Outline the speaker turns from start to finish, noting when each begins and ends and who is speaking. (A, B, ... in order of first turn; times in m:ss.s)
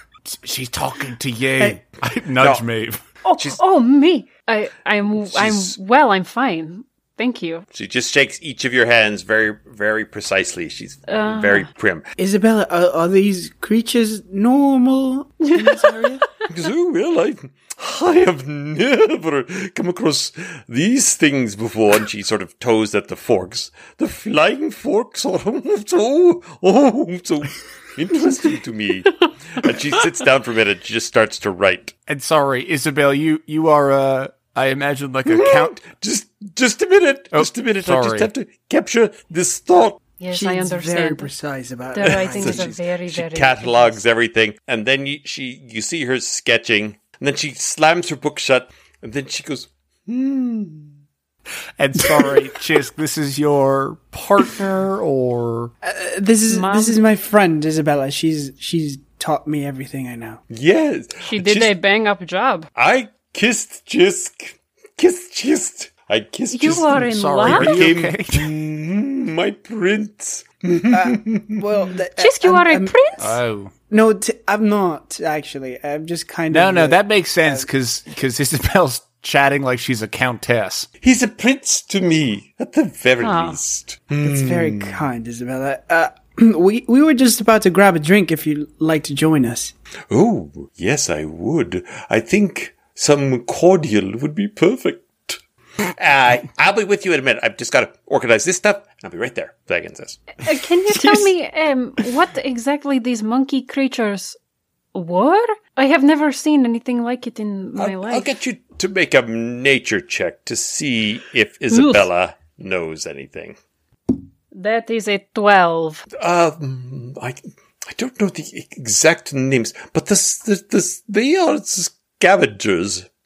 0:00.2-0:03.0 A
0:02.4-0:02.6 B
0:03.2-0:07.6 C
0:05.2-0:05.8 B
0:07.7-0:12.1 B
0:11.1-0:11.7 C
0:12.2-0:16.2 D
0:15.4-0:16.1 C
0:16.4-0:31.9 B
0:32.1-0:35.8 A
0:35.3-0:40.0 B
0:37.3-0:38.3 A
0:40.2-0:41.3 C
0:40.3-0:42.8 D
0:41.9-0:44.0 C
0:42.0-0:50.9 B
0:51.8-0:55.7 A
0:55.8-1:00.4 D
0:56.5-0:57.0 C
1:00.5-1:01.7 B
1:01.2-1:02.7 C
1:02.8-1:11.6 B
1:06.5-1:07.9 C
1:06.9-1:08.5 A
1:10.9-1:12.9 D
1:12.2-1:13.4 C
1:13.2-1:13.7 A
1:13.9-1:17.7 D
1:16.5-1:20.9 A
1:21.0-1:25.0 B
1:23.2-1:23.6 C
1:24.2-1:29.7 D
1:30.1-1:40.3 B
1:40.4-1:44.4 C
1:40.9-1:41.3 D
1:44.9-1:48.3 C
1:47.8-1:53.6 B
1:51.7-1:52.1 C
1:54.5-1:56.0 C
1:56.1-2:03.1 B